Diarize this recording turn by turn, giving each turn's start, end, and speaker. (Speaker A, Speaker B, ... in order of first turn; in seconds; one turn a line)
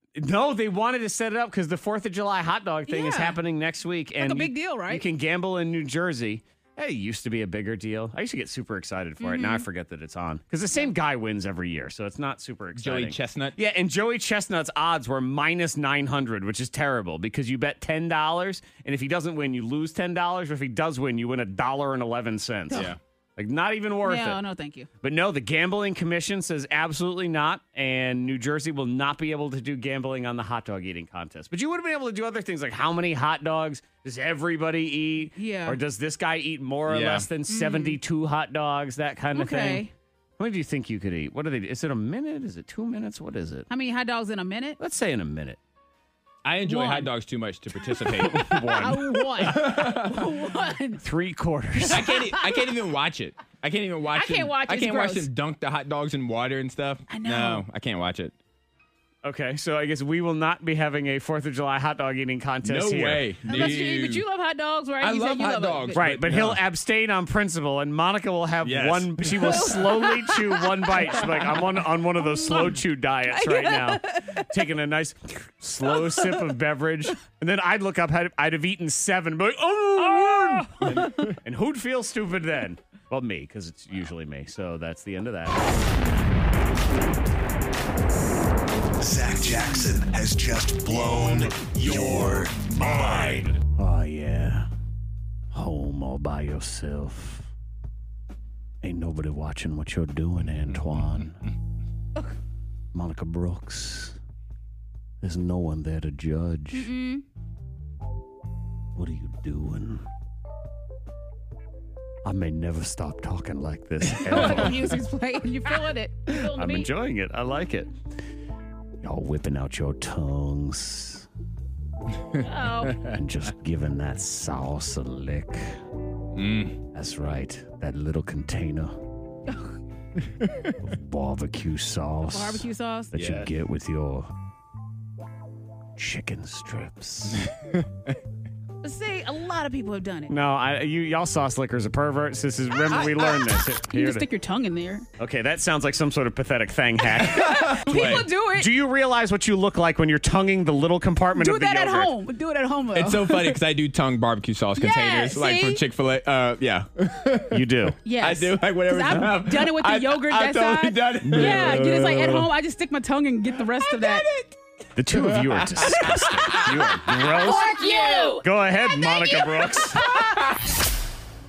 Speaker A: 0.1-24.4
Speaker B: 2.9-3.4
Speaker B: 4.2-5.0
Speaker B: 9.2-9.7
Speaker C: 12.7-13.6
Speaker C: 22.7-23.0
Speaker B: 24.0-24.9
Speaker A: 25.0-39.8
Speaker B: 35.4-35.8
Speaker C: 36.9-37.3
Speaker B: 37.5-38.0
Speaker B: 39.3-39.9
Speaker A: 40.4-43.7
Speaker B: 43.7-44.8
Speaker A: 44.8-45.6
Speaker C: 46.4-48.9
Speaker B: 46.6-47.1
Speaker B: 47.9-51.0
Speaker A: 48.3-49.7
Speaker C: 49.4-50.3
Speaker A: 51.0-52.0
Speaker B: 51.9-52.7
Speaker C: 51.9-58.3
Speaker B: 54.1-55.3
Speaker B: 57.1-57.6
Speaker A: 59.2-63.6
Speaker C: 62.6-64.2
Speaker B: 63.5-66.0
Speaker C: 65.0-66.6
Speaker A: 65.9-85.6
Speaker C: 68.6-69.8
Speaker B: 69.3-71.3
Speaker B: 72.2-74.6
Speaker B: 75.9-76.4
Speaker B: 80.0-81.3
Speaker C: 80.9-81.2
Speaker D: 89.0-93.6
Speaker A: 93.7-94.7
Speaker A: 95.5-97.5
Speaker A: 98.8-101.4
Speaker A: 102.9-104.2
Speaker A: 105.2-106.9
Speaker B: 106.7-107.2
Speaker A: 108.9-110.0
Speaker A: 112.2-114.9
Speaker B: 114.2-116.9
Speaker C: 114.3-114.7
Speaker A: 116.3-117.9
Speaker A: 119.0-121.2
Speaker C: 122.3-123.0
Speaker B: 122.4-123.0
Speaker A: 123.0-125.8
Speaker C: 126.3-126.8
Speaker A: 126.9-129.0
Speaker C: 130.4-130.7
Speaker A: 130.8-134.3
Speaker B: 132.3-133.2
Speaker C: 133.1-133.5
Speaker A: 136.0-137.5
Speaker C: 137.3-138.2
Speaker B: 138.8-140.3
Speaker A: 140.3-144.2
Speaker C: 142.9-143.4
Speaker B: 142.9-145.1
Speaker A: 145.2-147.6
Speaker B: 147.2-148.7
Speaker C: 147.2-148.3
Speaker A: 148.6-152.1
Speaker B: 151.3-153.6
Speaker C: 152.9-162.5
Speaker B: 154.8-155.8
Speaker A: 157.5-158.0
Speaker B: 158.0-164.3
Speaker C: 163.7-168.2
Speaker A: 164.9-167.7
Speaker B: 167.2-170.4
Speaker A: 168.4-170.0
Speaker C: 170.0-170.6